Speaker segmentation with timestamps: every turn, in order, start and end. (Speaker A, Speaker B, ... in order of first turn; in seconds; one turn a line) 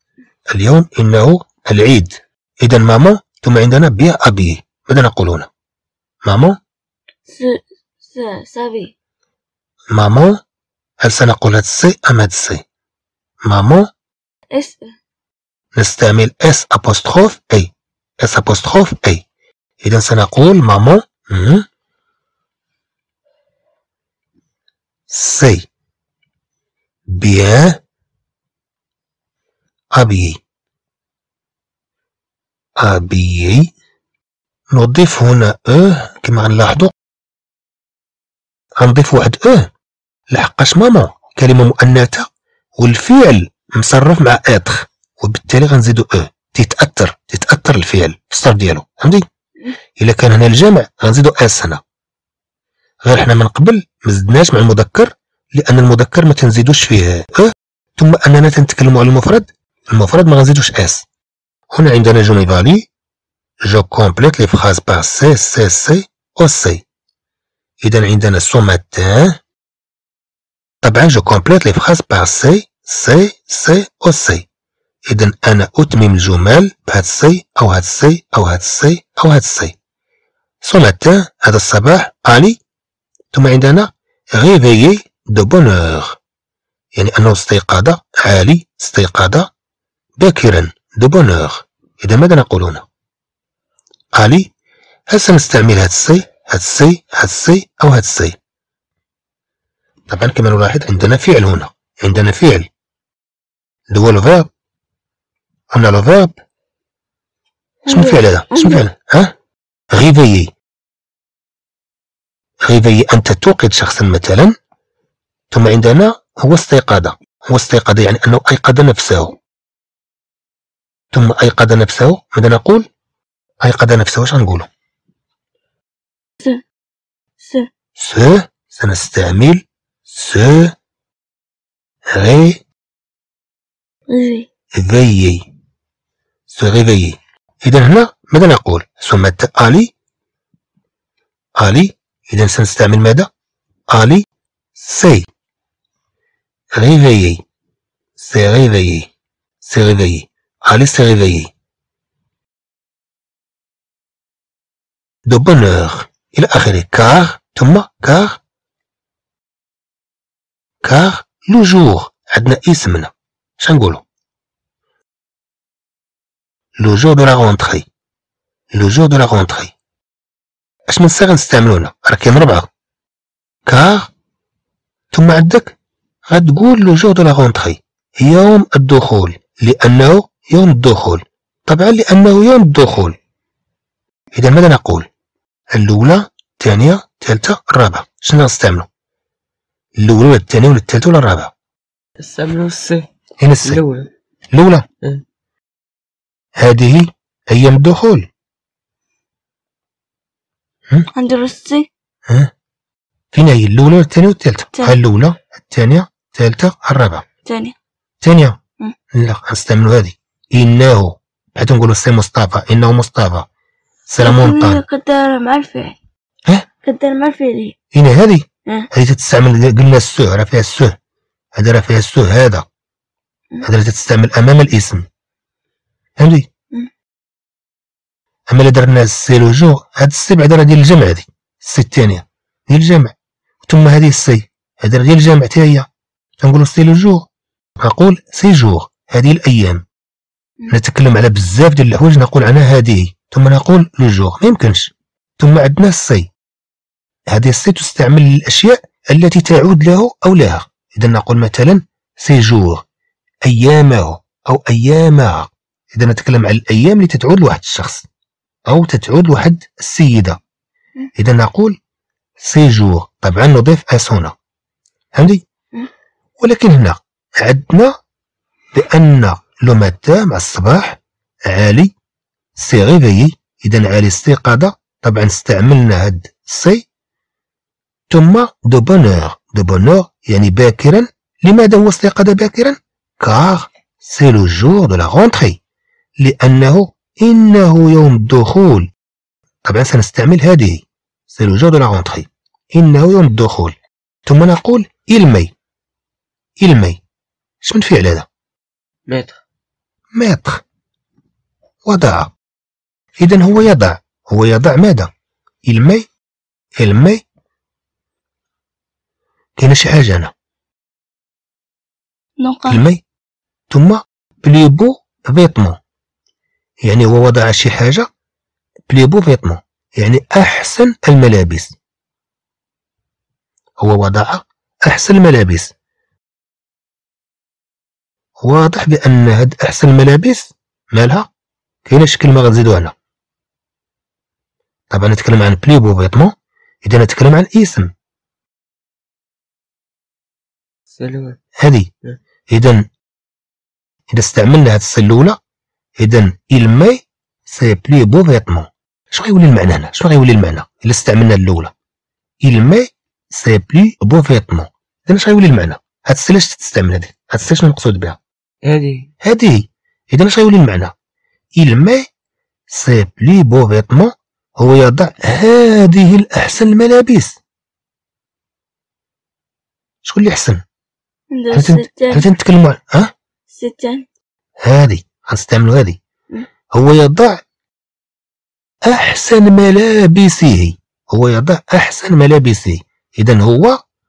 Speaker A: 0.5-5.5
Speaker A: 6.2-6.6
Speaker B: 7.3-8.9
Speaker A: 9.9-10.4
Speaker A: 11.0-12.6
Speaker A: 13.5-13.9
Speaker B: 14.5-14.9
Speaker A: 15.8-19.2
Speaker A: 19.8-21.6
Speaker A: 25.1-25.7
Speaker A: 27.1-27.8
Speaker A: 30.0-30.4
Speaker A: 32.8-33.7
Speaker A: 34.7-36.9
Speaker A: 38.8-39.7
Speaker A: 40.3-42.3
Speaker A: 42.8-49.2
Speaker A: 50.0-51.8
Speaker A: 53.0-61.1
Speaker A: 61.7-62.9
Speaker A: 63.6-66.8
Speaker A: 67.8-69.4
Speaker A: 70.8-74.5
Speaker A: 75.1-79.8
Speaker A: 80.6-82.6
Speaker A: 83.3-86.2
Speaker A: 87.0-89.5
Speaker A: 90.2-92.8
Speaker A: 94.2-94.5
Speaker A: 95.1-98.4
Speaker A: 100.1-102.7
Speaker A: 103.9-104.5
Speaker A: 105.7-106.3
Speaker B: 107.9-108.8
Speaker A: 107.9-109.3
Speaker A: 109.9-110.5
Speaker A: 112.7-114.5
Speaker A: 115.5-119.4
Speaker A: 121.1-122.9
Speaker A: 123.6-124.7
Speaker B: 127.4-127.7
Speaker A: 128.0-130.7
Speaker A: 132.1-132.6
Speaker B: 134.1-134.5
Speaker A: 134.8-135.5
Speaker A: 136.5-139.9
Speaker A: 141.6-143.3
Speaker A: 143.9-144.2
Speaker A: 144.8-145.3
Speaker A: 146.8-147.4
Speaker A: 148.2-149.1
Speaker A: 149.6-151.5
Speaker A: 155.3-158.4
Speaker A: 160.8-164.0
Speaker A: 166.8-167.9
Speaker A: 168.8-169.7
Speaker A: 170.9-172.7
Speaker A: 173.7-174.1
Speaker A: 175.1-175.8
Speaker A: 176.3-183.2
Speaker A: 184.3-185.1
Speaker A: 185.7-188.9
Speaker A: 190.0-191.5
Speaker C: 192.2-193.1
Speaker A: 193.4-193.8
Speaker C: 193.6-194.1
Speaker A: 194.5-194.9
Speaker A: 196.6-198.3
Speaker B: 201.1-201.9
Speaker A: 203.3-207.2
Speaker B: 207.4-207.8
Speaker A: 208.2-208.6
Speaker A: 209.1-213.5
Speaker A: 214.1-214.8
Speaker B: 214.2-216.0
Speaker B: 216.8-217.8
Speaker A: 217.9-220.9
Speaker A: 221.6-222.7
Speaker A: 223.6-225.1
Speaker A: 226.2-226.5
Speaker A: 228.5-235.9
Speaker A: 236.4-237.3
Speaker A: 237.8-239.8
Speaker A: 240.7-246.3
Speaker A: 247.3-252.8
Speaker A: 253.4-258.1
Speaker A: 258.7-260.4
Speaker A: 261.2-261.8
Speaker A: 262.4-264.3
Speaker A: 265.2-265.4
Speaker A: 266.4-268.0
Speaker A: 268.7-271.9
Speaker A: 272.6-276.9
Speaker A: 278.1-285.6
Speaker A: 286.2-288.9
Speaker A: 289.6-295.5
Speaker A: 296.6-297.0
Speaker A: 297.6-298.3
Speaker C: 299.1-299.4
Speaker A: 300.1-300.6
Speaker A: 301.9-302.3
Speaker A: 303.2-305.1
Speaker A: 305.7-306.1
Speaker A: 306.8-307.2
Speaker A: 309.6-310.3
Speaker B: 312.4-312.8
Speaker A: 312.7-313.0
Speaker A: 313.7-315.8
Speaker A: 316.9-318.1
Speaker A: 318.9-321.8
Speaker A: 323.8-325.7
Speaker A: 328.4-331.3
Speaker A: 331.9-332.9
Speaker A: 334.9-337.9
Speaker C: 340.9-341.4
Speaker A: 341.6-341.9
Speaker A: 342.5-342.9
Speaker A: 344.1-345.4
Speaker A: 346.0-351.7
Speaker A: 352.4-358.2
Speaker C: 358.6-359.1
Speaker A: 359.2-360.9
Speaker A: 361.6-362.1
Speaker A: 362.7-367.4
Speaker A: 370.0-370.6
Speaker B: 371.3-372.3
Speaker A: 371.5-373.1
Speaker B: 373.5-374.1
Speaker A: 374.6-376.0
Speaker A: 376.7-377.4
Speaker A: 378.9-383.8